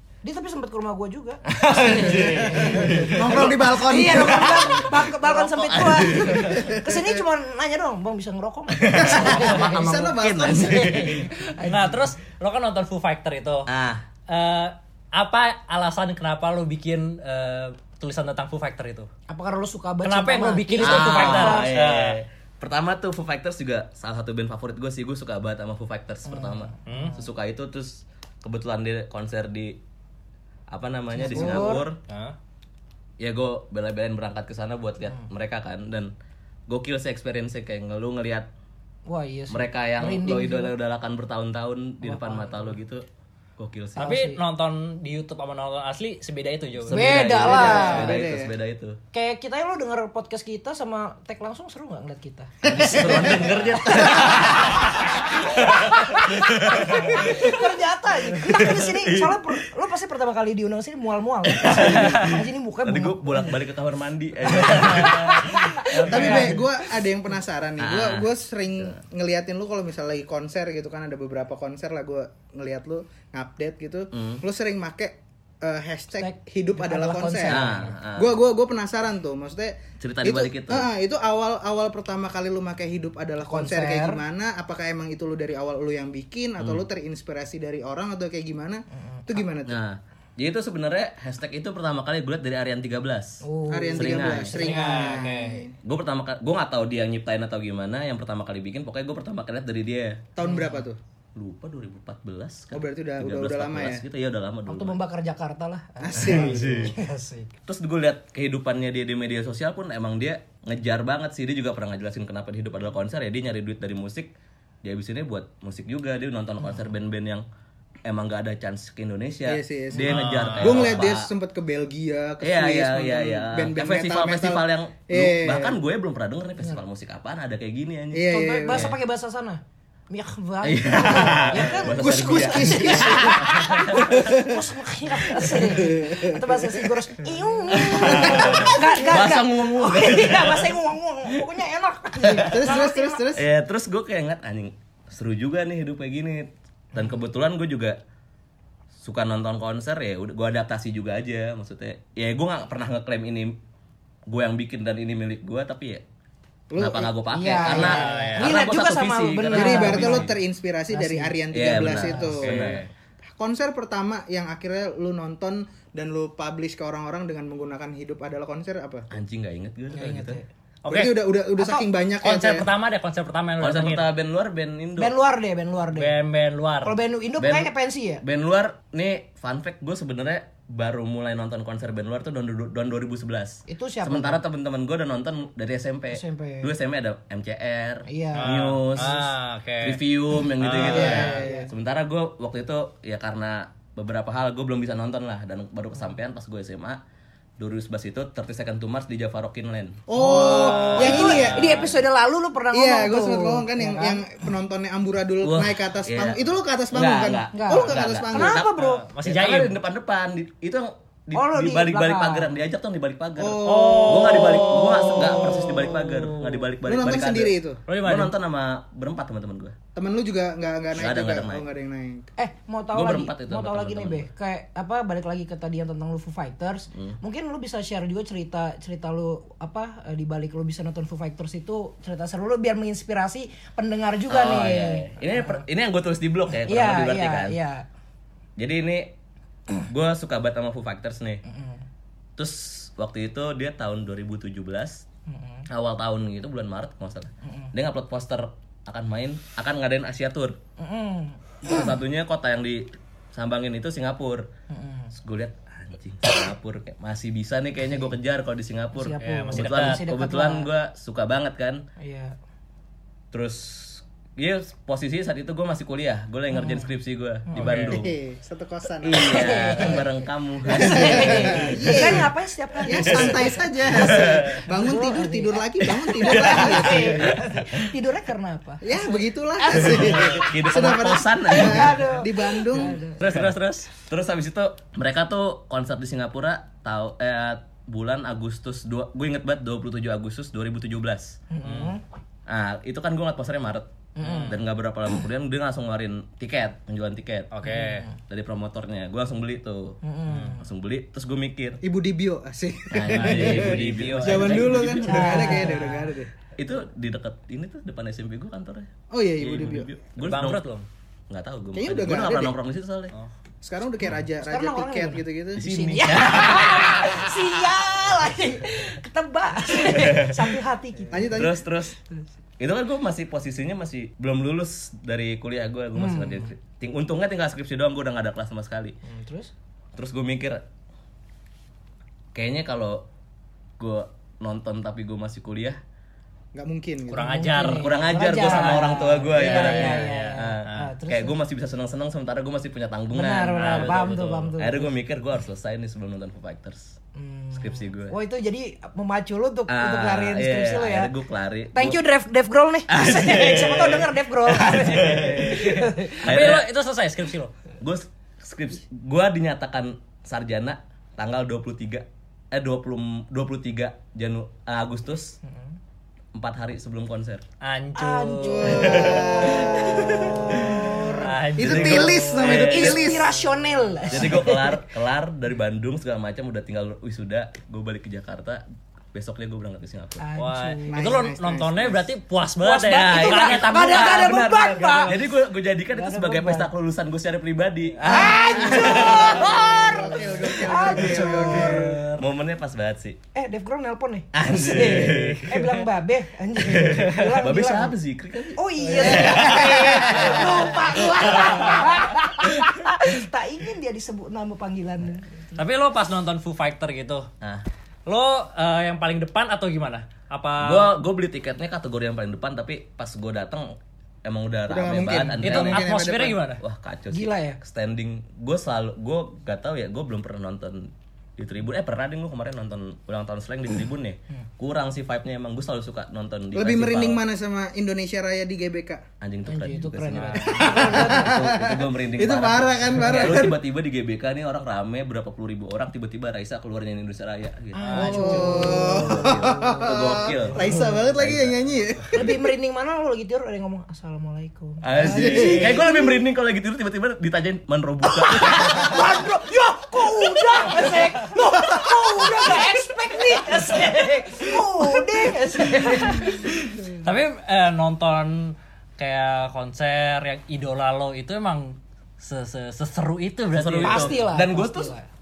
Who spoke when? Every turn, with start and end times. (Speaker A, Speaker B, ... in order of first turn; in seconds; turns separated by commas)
Speaker A: 0.2-3.1, Speaker B: 1.5-6.8, Speaker C: 1.9-4.7, Speaker A: 3.7-12.1, Speaker C: 6.5-7.1, Speaker B: 8.7-11.3, Speaker C: 8.9-11.2, Speaker D: 11.7-13.7, Speaker B: 13.7-14.1, Speaker D: 14.3-19.1, Speaker A: 19.3-21.7, Speaker D: 20.0-22.2, Speaker B: 20.8-29.8, Speaker A: 26.4-27.1, Speaker D: 26.9-27.2, Speaker B: 30.7-32.0, Speaker A: 31.2-31.9, Speaker D: 31.3-32.3, Speaker B: 33.2-36.1, Speaker B: 36.7-38.5, Speaker A: 39.0-40.7, Speaker B: 39.5-43.0, Speaker A: 42.0-42.6, Speaker B: 43.6-44.1, Speaker A: 44.0-44.4, Speaker D: 44.0-47.0, Speaker B: 46.8-49.0, Speaker A: 46.9-48.2, Speaker C: 47.3-48.5, Speaker A: 49.1-63.5, Speaker B: 52.6-57.8, Speaker C: 52.6-53.4, Speaker B: 58.3-59.6, Speaker B: 61.5-66.6, Speaker A: 65.0-66.5, Speaker D: 65.0-65.3, Speaker D: 65.9-66.6, Speaker C: 66.0-89.8, Speaker B: 67.8-68.3, Speaker B: 74.1-74.4, Speaker A: 76.2-77.9, Speaker B: 77.5-78.3, Speaker B: 80.0-80.9, Speaker A: 83.4-84.2, Speaker B: 86.6-86.8, Speaker A: 89.0-89.2, Speaker B: 89.6-93.4, Speaker A: 93.4-95.6, Speaker C: 93.7-95.7, Speaker B: 93.9-94.6, Speaker D: 94.5-95.6, Speaker B: 95.8-100.3, Speaker C: 100.3-101.0, Speaker A: 100.4-100.8, Speaker B: 101.3-105.0, Speaker C: 102.7-104.0, Speaker A: 104.7-107.5, Speaker C: 106.0-106.9, Speaker B: 106.2-106.9, Speaker B: 107.6-117.5, Speaker B: 118.0-121.3, Speaker C: 119.5-125.8, Speaker D: 120.0-121.0, Speaker B: 122.4-128.9, Speaker C: 128.1-128.9, Speaker A: 128.2-143.3, Speaker B: 130.6-134.3, Speaker C: 131.8-134.6, Speaker B: 135.4-135.6, Speaker C: 135.7-136.6, Speaker B: 137.7-141.5, Speaker C: 138.0-138.7, Speaker B: 142.2-142.8, Speaker C: 142.3-143.4, Speaker B: 143.3-148.0, Speaker B: 149.0-153.6, Speaker B: 154.3-156.0, Speaker C: 156.7-158.0, Speaker B: 156.8-160.3, Speaker A: 157.3-160.3, Speaker D: 157.7-158.5, Speaker C: 159.5-162.8, Speaker A: 160.9-162.3, Speaker B: 161.5-162.9, Speaker D: 162.4-162.9, Speaker C: 163.4-169.1, Speaker B: 169.1-170.4, Speaker A: 169.9-170.4, Speaker D: 170.8-171.2, Speaker C: 170.9-172.7, Speaker A: 171.6-171.8, Speaker D: 172.2-174.1, Speaker B: 173.6-175.1, Speaker A: 175.0-176.1, Speaker D: 175.9-177.0, Speaker A: 176.8-178.2, Speaker B: 177.4-189.3, Speaker A: 183.7-184.4, Speaker A: 186.1-186.7, Speaker A: 188.1-189.1, Speaker D: 188.3-191.4, Speaker B: 189.8-197.0, Speaker C: 190.8-191.7, Speaker A: 190.9-191.7, Speaker B: 197.6-200.0, Speaker C: 200.1-201.8, Speaker A: 200.1-204.4, Speaker D: 200.3-201.9, Speaker B: 200.8-201.7, Speaker C: 202.7-208.6, Speaker B: 205.4-219.8, Speaker A: 207.5-209.0, Speaker D: 208.6-209.8, Speaker A: 211.3-212.5, Speaker C: 213.4-214.7, Speaker D: 213.6-216.7, Speaker C: 216.8-217.8, Speaker D: 217.9-218.3, Speaker C: 219.9-222.3, Speaker B: 220.9-221.7, Speaker A: 222.4-235.6, Speaker B: 222.9-224.3, Speaker B: 234.3-237.6, Speaker A: 236.6-237.8, Speaker B: 238.6-239.1, Speaker B: 239.8-241.4, Speaker A: 241.4-241.8, Speaker B: 242.4-245.0, Speaker A: 245.3-245.7, Speaker B: 245.7-250.6, Speaker A: 247.4-247.7, Speaker A: 250.8-251.4, Speaker B: 251.6-254.4, Speaker A: 254.7-255.1, Speaker B: 255.1-261.8, Speaker A: 258.9-260.7, Speaker D: 259.2-260.0, Speaker A: 262.0-262.3, Speaker B: 263.3-268.2, Speaker A: 266.5-266.9, Speaker A: 267.5-267.8, Speaker D: 267.6-268.0, Speaker C: 267.9-270.0, Speaker B: 269.0-272.2, Speaker A: 269.2-274.1, Speaker C: 270.7-272.3, Speaker C: 272.8-277.3, Speaker B: 272.9-274.6, Speaker A: 274.7-280.5, Speaker B: 275.9-277.9, Speaker C: 278.8-283.0, Speaker B: 279.7-282.1, Speaker A: 281.5-283.4, Speaker B: 283.2-291.4, Speaker A: 291.5-292.0, Speaker D: 291.6-291.9, Speaker B: 292.5-297.5, Speaker A: 294.1-294.6, Speaker D: 297.5-298.1, Speaker A: 297.6-298.1, Speaker B: 298.2-301.8, Speaker A: 300.0-300.6, Speaker C: 301.8-306.3, Speaker B: 302.9-305.7, Speaker D: 303.1-304.9, Speaker A: 305.0-306.2, Speaker B: 306.6-310.6, Speaker C: 309.1-309.9, Speaker D: 310.2-310.9, Speaker B: 311.3-313.1, Speaker C: 311.7-312.5, Speaker C: 313.6-315.6, Speaker A: 314.4-321.4, Speaker B: 315.6-317.3, Speaker D: 316.1-316.8, Speaker B: 319.8-320.5, Speaker C: 321.1-321.6, Speaker B: 321.3-321.9, Speaker B: 322.6-329.0, Speaker A: 325.9-326.5, Speaker A: 329.0-329.5, Speaker B: 329.9-330.6, Speaker B: 332.3-333.0, Speaker B: 333.8-335.8, Speaker C: 336.5-337.4, Speaker D: 337.1-340.9, Speaker A: 337.1-341.4, Speaker B: 337.6-347.0, Speaker A: 343.1-344.9, Speaker D: 343.5-344.5, Speaker A: 347.1-351.1, Speaker B: 347.5-348.1, Speaker B: 349.7-352.0, Speaker A: 351.7-356.3, Speaker B: 352.9-356.6, Speaker D: 355.5-357.5, Speaker B: 357.8-365.4, Speaker B: 366.3-367.4, Speaker D: 367.6-370.5, Speaker A: 367.9-371.3, Speaker C: 368.4-373.4, Speaker B: 368.7-371.0, Speaker D: 371.2-372.8, Speaker B: 371.6-373.2, Speaker A: 372.5-374.8, Speaker B: 374.1-378.6, Speaker B: 379.1-380.2, Speaker A: 380.2-381.2, Speaker D: 380.4-384.4, Speaker C: 380.9-382.0, Speaker A: 382.6-385.1, Speaker B: 383.0-393.2, Speaker A: 385.9-386.7, Speaker A: 388.0-392.1, Speaker C: 388.3-392.1, Speaker A: 393.3-397.9, Speaker B: 394.3-395.8, Speaker D: 394.7-395.6, Speaker B: 396.6-401.8, Speaker A: 398.5-405.6, Speaker D: 399.1-400.3, Speaker C: 399.2-400.0, Speaker D: 405.6-407.3, Speaker B: 407.4-407.6, Speaker D: 408.1-410.9, Speaker B: 410.6-415.9, Speaker C: 414.7-416.4, Speaker D: 415.4-416.6, Speaker B: 416.6-427.2, Speaker A: 417.1-417.6, Speaker C: 426.5-429.0, Speaker B: 429.2-441.6, Speaker A: 429.5-431.4, Speaker D: 430.1-430.7, Speaker C: 430.5-433.6, Speaker A: 437.7-439.9, Speaker D: 437.8-438.6, Speaker C: 437.9-442.3, Speaker A: 440.6-440.9, Speaker A: 442.1-446.2, Speaker B: 444.8-449.1, Speaker C: 445.0-445.8, Speaker A: 448.1-456.5, Speaker D: 455.8-464.2, Speaker B: 463.5-464.9, Speaker A: 463.8-465.1